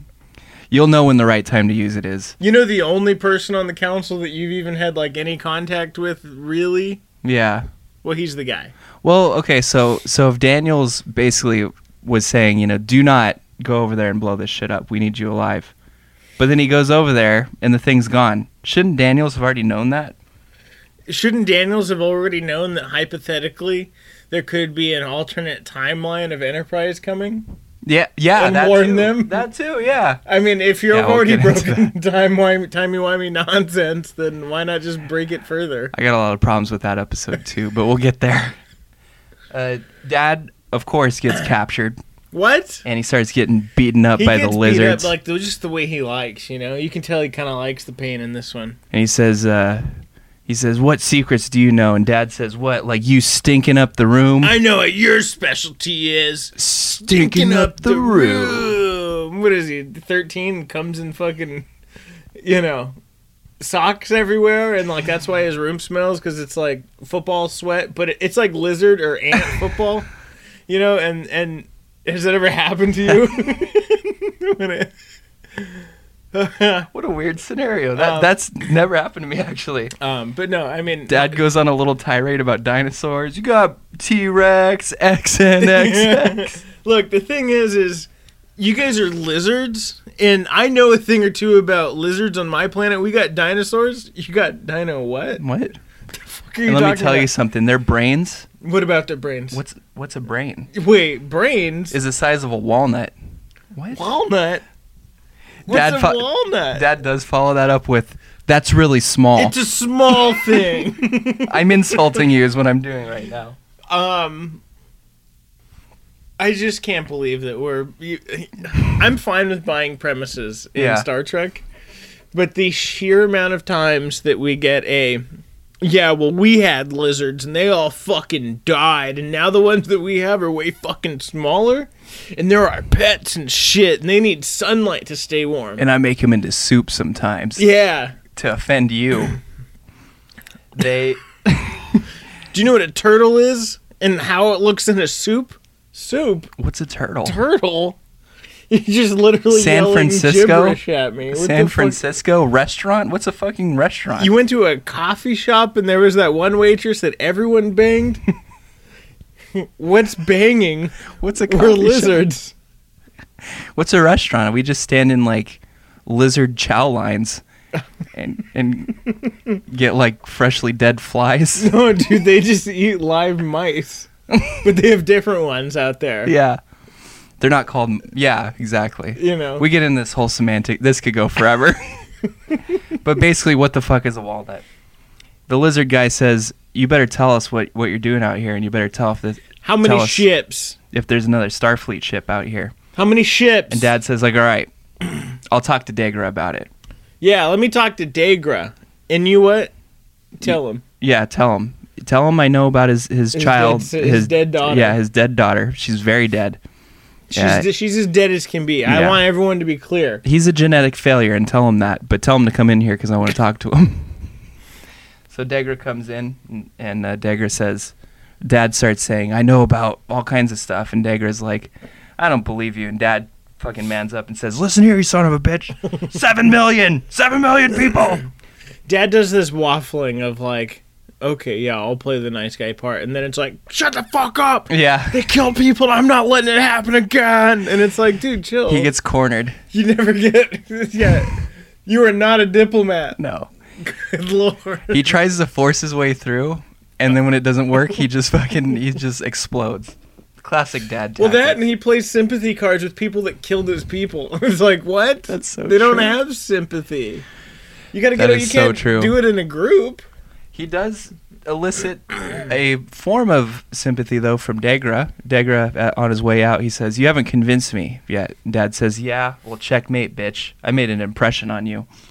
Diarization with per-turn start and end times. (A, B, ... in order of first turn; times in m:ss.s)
0:00.7-0:02.4 A
0:02.4-0:07.0 B
0:07.2-0:07.7 A
0:08.0-0:08.7 B
0:09.0-0:15.7 A
0:16.4-0:20.2 A
0:21.1-0:27.5 B
0:27.8-0:30.2 A
0:28.3-0:29.4 B
0:30.2-0:35.9 B
0:30.9-0:31.9 A
0:35.9-0:38.6 A
0:39.5-0:42.0 A
0:42.3-0:42.8 B
0:42.8-0:45.1 A
0:44.2-0:48.8 B
0:48.9-0:49.9 A
0:50.5-0:54.6 A
0:54.4-1:01.6 B
0:56.6-0:58.8 A
1:02.4-1:03.0 B
1:03.6-1:10.1 B
1:10.7-1:14.9 B
1:16.3-1:16.9 B
1:16.9-1:19.9 A
1:17.9-1:18.4 B
1:20.0-1:21.4 B
1:21.1-1:26.6 A
1:25.6-1:35.4 B
1:35.4-1:35.8 A
1:36.1-1:37.3 B
1:36.6-1:38.5 A
1:38.6-1:39.6 B
1:39.5-1:40.7 A
1:40.7-1:42.0 B
1:41.9-1:43.1 A
1:43.7-1:44.1 A
1:43.9-1:44.6 B
1:45.6-1:46.8 B
1:45.7-1:49.6 A
1:49.4-1:52.1 B
1:50.3-1:53.6 A
1:53.9-1:54.6 B
1:56.4-2:01.6 B
2:00.7-2:01.1 A
2:02.3-2:05.2 B
2:05.8-2:15.8 B
2:15.8-2:17.7 A
2:17.6-2:18.2 B
2:18.3-2:19.4 A
2:20.7-2:22.0 A
2:22.5-2:26.5 B
2:26.6-2:27.4 A
2:27.2-2:28.0 B
2:28.7-2:32.0 B
2:29.5-2:30.8 A
2:31.3-2:34.3 A
2:34.2-2:38.2 B
2:39.5-2:42.5 B
2:41.2-2:42.2 A
2:43.7-2:47.4 A
2:48.1-2:49.1 A
2:49.6-2:51.7 A
2:51.6-2:56.3 B
2:54.3-2:54.6 A
2:56.2-2:56.6 A
2:57.4-3:02.0 A
2:59.2-2:59.6 B
3:03.0-3:04.6 A
3:05.5-3:10.3 A
3:09.6-3:10.8 B
3:10.9-3:12.7 A
3:13.0-3:13.9 B
3:13.7-3:14.7 A
3:15.5-3:16.7 A
3:17.2-3:19.7 B
3:20.3-3:20.8 B
3:20.4-3:26.6 A
3:23.3-3:25.0 B
3:27.3-3:30.2 B
3:27.3-3:27.6 A
3:28.8-3:29.2 A
3:30.2-3:34.3 A
3:35.3-3:48.2 A
3:48.8-3:58.9 B
3:54.7-3:55.2 A
3:58.7-3:59.6 A
3:59.7-4:03.2 B
4:03.2-4:03.5 A
4:03.8-4:05.1 B
4:04.9-4:11.6 A
4:11.2-4:17.2 B
4:15.3-4:16.2 A
4:17.9-4:20.0 B
4:18.2-4:19.2 A
4:20.5-4:31.9 A